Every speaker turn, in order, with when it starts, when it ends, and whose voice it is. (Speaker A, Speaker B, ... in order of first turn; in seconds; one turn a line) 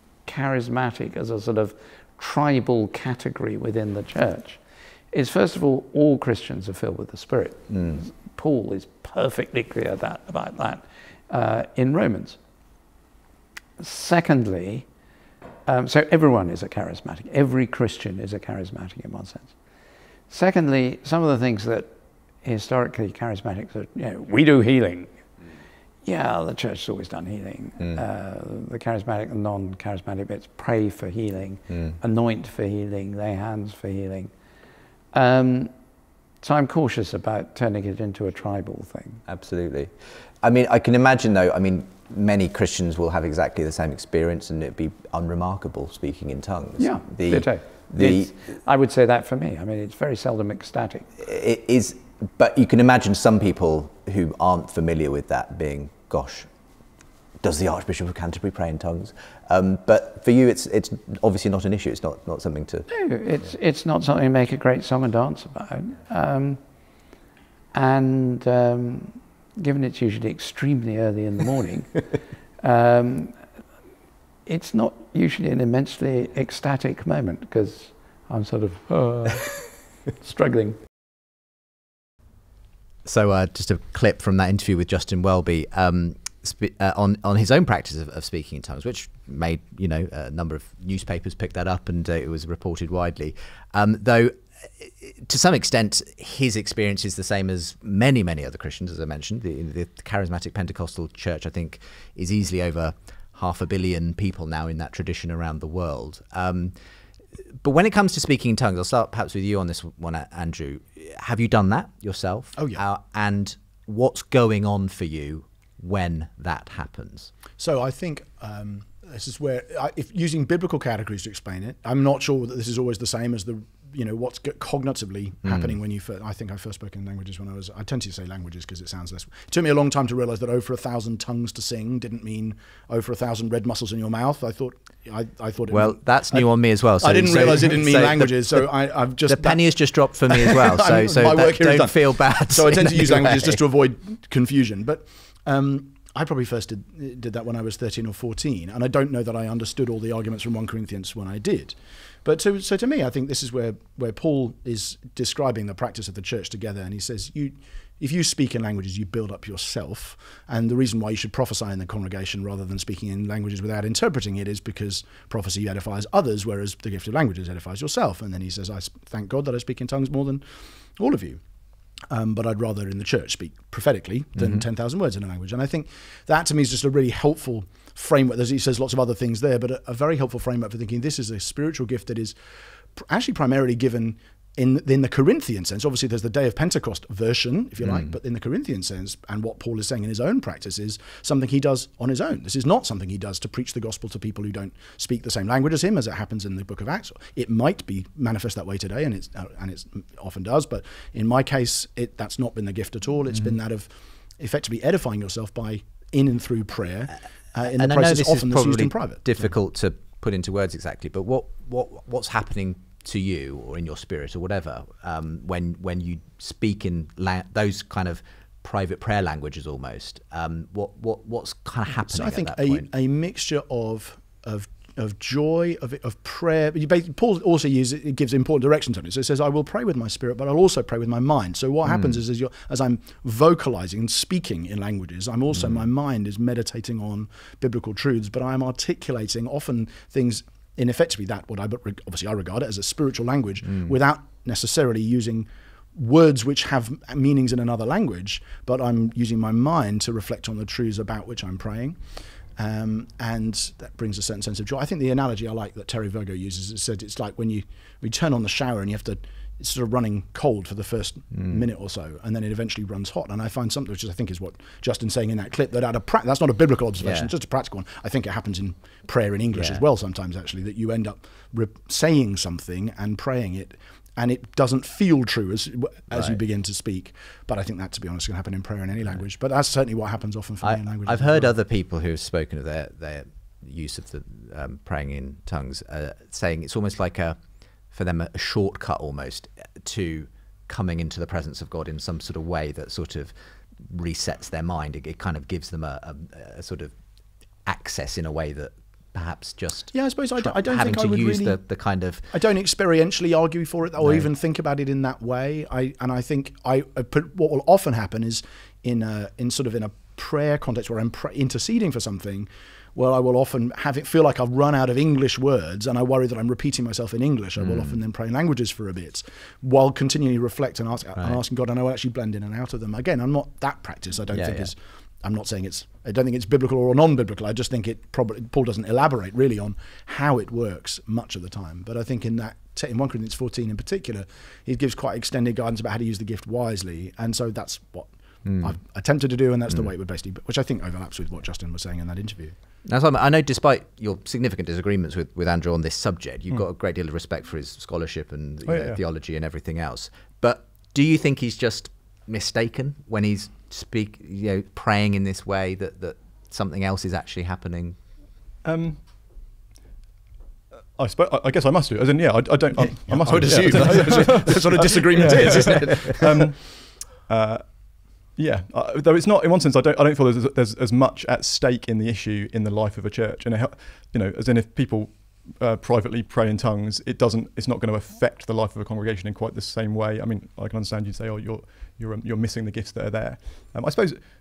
Speaker A: 0.2-12.4
Speaker B: 7.7-8.0
Speaker A: 13.8-14.9
Speaker A: 15.7-19.5
Speaker A: 20.3-21.9
Speaker A: 22.4-25.2
Speaker A: 26.0-34.3
Speaker B: 31.7-31.9
Speaker A: 35.1-35.7
Speaker A: 36.4-39.2
Speaker B: 39.3-48.3
Speaker A: 46.8-51.1
Speaker B: 51.2-56.5
Speaker B: 57.4-62.9
Speaker A: 62.9-66.6
Speaker A: 67.7-72.1
Speaker A: 72.6-73.4
Speaker A: 74.5-80.8
Speaker B: 83.0-106.7
Speaker B: 107.6-117.3
Speaker C: 112.6-112.8
Speaker C: 117.6-136.5
Speaker B: 135.7-138.6
Speaker C: 137.0-139.7
Speaker B: 139.2-143.6
Speaker C: 140.3-170.4
Speaker C: 171.0-171.4
Speaker C: 172.1-182.3
Speaker C: 182.9-209.2
Speaker B: 187.8-188.1
Speaker B: 207.6-222.9
Speaker C: 222.1-281.5
Speaker B: 267.0-267.3
Speaker B: 269.6-269.8
Speaker B: 280.6-287.4
Speaker B: 287.9-293.3
Speaker B: 293.9-296.9
Speaker B: 297.6-302.3
Speaker C: 299.9-301.6
Speaker C: 302.3-342.5
Speaker B: 304.0-304.3
Speaker B: 317.6-317.9
Speaker B: 324.3-324.7
Speaker B: 338.4-338.7
Speaker B: 342.9-358.0
Speaker D: 348.6-349.0
Speaker D: 358.6-359.0
Speaker D: 360.9-367.6
Speaker C: 362.8-366.5
Speaker D: 368.4-384.2